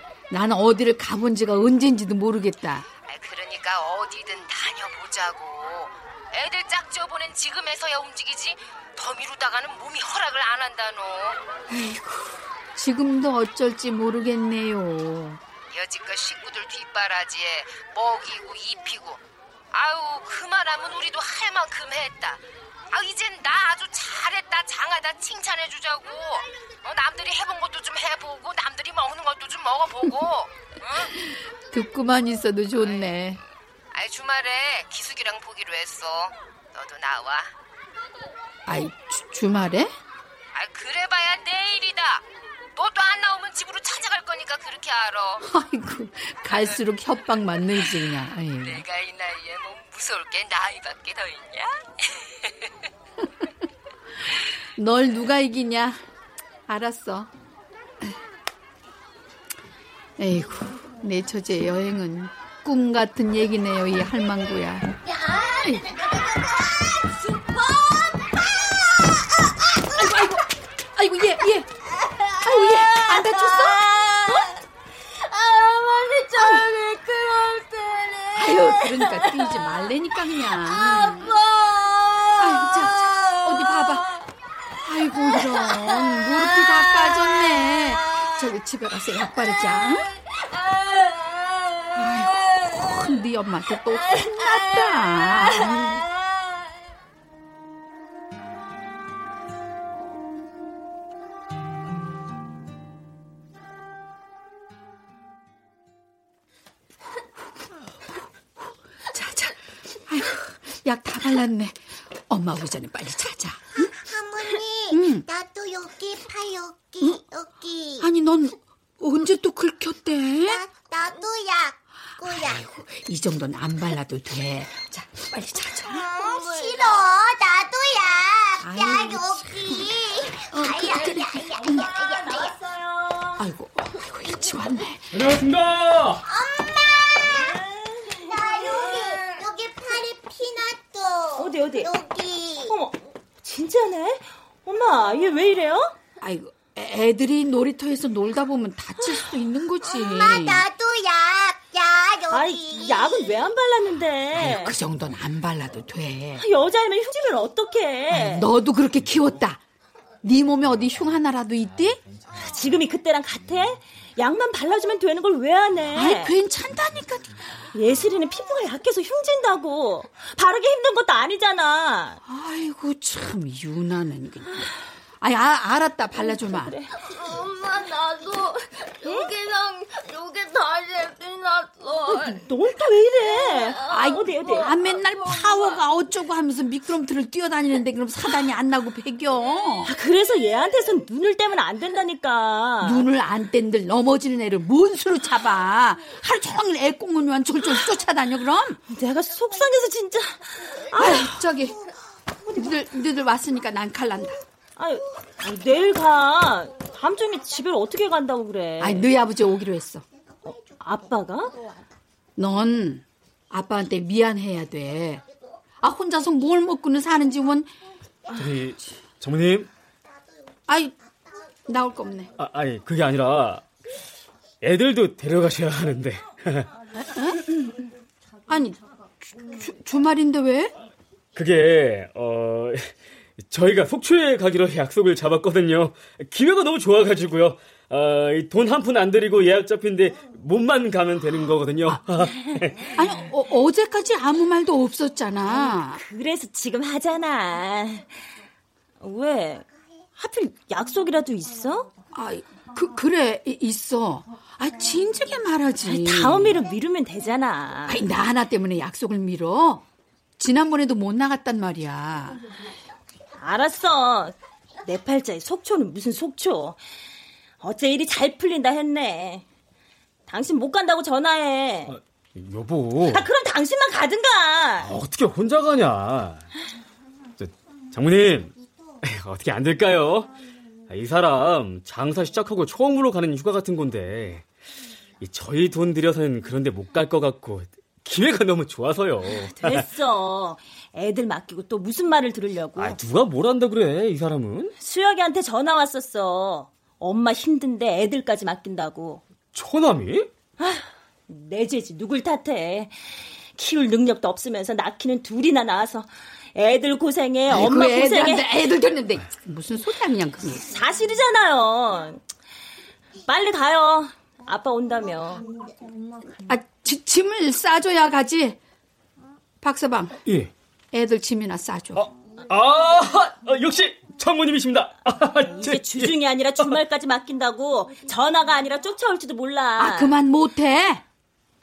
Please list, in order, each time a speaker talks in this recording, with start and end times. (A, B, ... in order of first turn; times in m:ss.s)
0:00.3-0:02.9 A
0:03.1-0:11.4 B
0:11.7-0:15.4 A
0:15.7-0:19.2 B
0:19.7-0:31.1 B
0:31.1-0:33.4 A
0:33.9-0:37.5 B
0:38.7-0:39.9 A
0:40.5-0:42.2 B
0:42.7-0:45.4 B
0:45.4-0:48.8 A
0:48.6-0:52.7 B
0:54.8-0:56.0 A
0:56.7-0:57.3 A
1:00.2-1:04.9 A
1:05.5-1:05.9 A
1:09.9-1:11.7 A
1:12.4-1:13.8 A
1:14.1-1:14.5 C
1:15.7-1:16.2 C
1:16.4-1:16.7 A
1:16.9-1:17.6 C
1:18.3-1:21.4 A
1:22.4-1:24.1 A
1:24.8-1:30.1 A
1:31.9-1:36.0 A
1:49.1-1:49.5 A
1:50.1-1:53.9 A
1:53.9-1:58.1 D
1:54.9-1:55.2 A
1:58.0-2:00.6 A
2:00.4-2:02.6 D
2:02.2-2:06.1 A
2:05.8-2:12.6 D
2:08.6-2:09.9 A
2:10.5-2:11.8 A
2:12.6-2:13.3 C
2:13.4-2:15.2 A
2:15.1-2:16.2 E
2:16.3-2:17.6 D
2:17.6-2:18.2 C
2:18.1-2:22.8 D
2:18.7-2:19.0 C
2:21.4-2:21.9 C
2:22.7-2:25.9 C
2:26.2-2:30.6 A
2:29.8-2:33.4 D
2:32.3-2:34.8 C
2:34.4-2:36.4 A
2:36.4-2:38.4 C
2:38.1-2:39.6 A
2:40.2-2:42.0 A
2:42.4-2:46.3 C
2:45.9-2:47.3 A
2:47.7-2:52.2 C
2:52.2-2:54.7 A
2:55.2-2:56.7 A
2:56.4-2:56.9 C
2:59.0-2:59.4 C
3:02.0-3:04.7 C
3:03.9-3:09.9 A
3:09.8-3:13.0 C
3:12.8-3:18.8 A
3:18.9-3:21.4 C
3:21.0-3:21.8 A
3:22.5-3:24.4 A
3:24.8-3:29.1 C
3:28.8-3:30.0 A
3:30.4-3:31.6 C
3:32.4-3:35.2 A
3:35.8-3:37.7 A
3:38.3-3:39.7 E
3:40.7-3:40.9 A
3:41.7-3:42.3 A
3:42.4-3:43.6 E
3:44.6-3:46.6 E
3:47.0-3:47.7 A
3:48.5-3:50.7 A
3:51.3-3:52.9 E
3:53.5-4:02.9 E
4:02.9-4:06.0 A
4:05.6-4:08.2 C
4:09.0-4:09.6 C
4:10.2-4:11.9 C
4:12.1-4:16.6 A
4:15.8-4:18.0 C
4:17.9-4:19.8 A
4:20.4-4:22.4 A
4:23.4-4:26.8 C
4:27.6-4:29.4 C
4:30.3-4:31.9 C
4:31.9-4:33.3 E
4:33.1-4:34.9 C
4:34.8-4:36.4 E
4:37.4-4:38.5 E
4:39.0-4:40.3 E
4:40.9-4:44.4 E
4:45.2-4:49.9 E
4:49.2-4:53.0 C
4:52.8-4:54.7 E
4:54.8-4:59.2 C
4:59.5-5:00.3 E
5:00.6-5:08.5 C
5:07.5-5:10.6 A
5:10.6-5:12.2 C
5:13.2-5:15.5 C
5:16.5-5:18.6 A
5:19.6-5:20.2 A
5:20.2-5:20.5 E
5:20.9-5:22.1 A
5:22.0-5:26.7 E
5:25.6-5:30.2 C
5:29.8-5:31.0 A